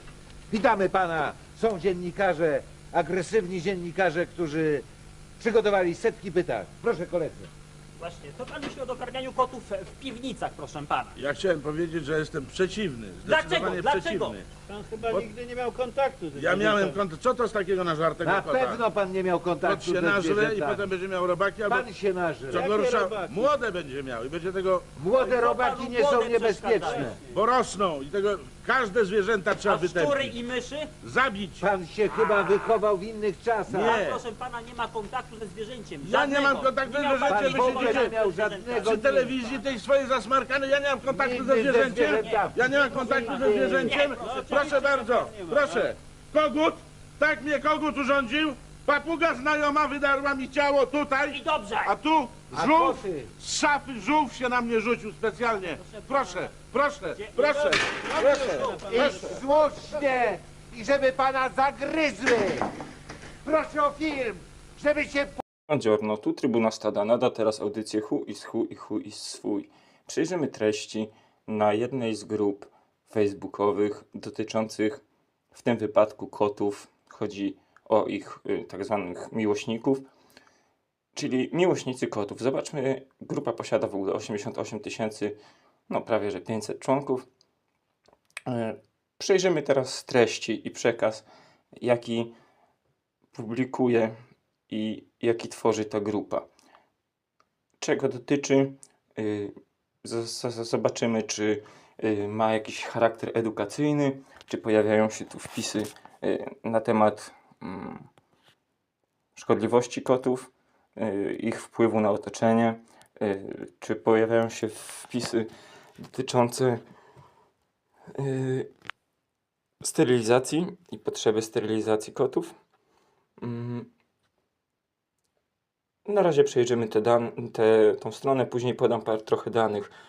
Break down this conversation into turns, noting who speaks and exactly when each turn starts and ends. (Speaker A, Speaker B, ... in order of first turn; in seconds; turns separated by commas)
Speaker A: 0.5-4.8, Speaker A: 5.4-7.5, Speaker B: 8.0-11.2, Speaker C: 11.2-14.5, Speaker B: 13.2-14.4, Speaker D: 14.7-17.0, Speaker C: 15.0-15.3, Speaker C: 16.3-18.8, Speaker A: 18.2-20.9, Speaker C: 19.6-21.9, Speaker A: 21.7-22.8, Speaker C: 22.5-24.9, Speaker D: 22.6-23.5, Speaker A: 25.0-27.2, Speaker B: 25.2-27.2, Speaker D: 26.9-27.2, Speaker C: 27.3-30.4, Speaker B: 29.6-30.9, Speaker C: 31.0-31.7, Speaker A: 31.6-34.0, Speaker B: 33.7-39.7, Speaker C: 33.8-34.2, Speaker C: 36.0-38.1, Speaker A: 37.3-39.3, Speaker C: 38.9-59.4, Speaker A: 41.1-43.9, Speaker B: 42.1-45.2, Speaker D: 43.9-45.8, Speaker B: 51.3-52.0, Speaker A: 52.5-53.3, Speaker B: 55.8-56.5, Speaker B: 57.1-59.5, Speaker A: 58.9-62.7, Speaker A: 63.5-65.4, Speaker E: 65.7-80.1, Speaker E: 81.1-85.4, Speaker E: 85.9-87.2, Speaker E: 88.5-91.3, Speaker E: 91.8-92.3, Speaker E: 93.3-94.1, Speaker E: 94.7-96.5, Speaker E: 97.8-108.1, Speaker E: 109.3-116.8, Speaker E: 118.2-118.7, Speaker E: 119.8-122.5, Speaker E: 123.4-123.9, Speaker E: 126.0-129.9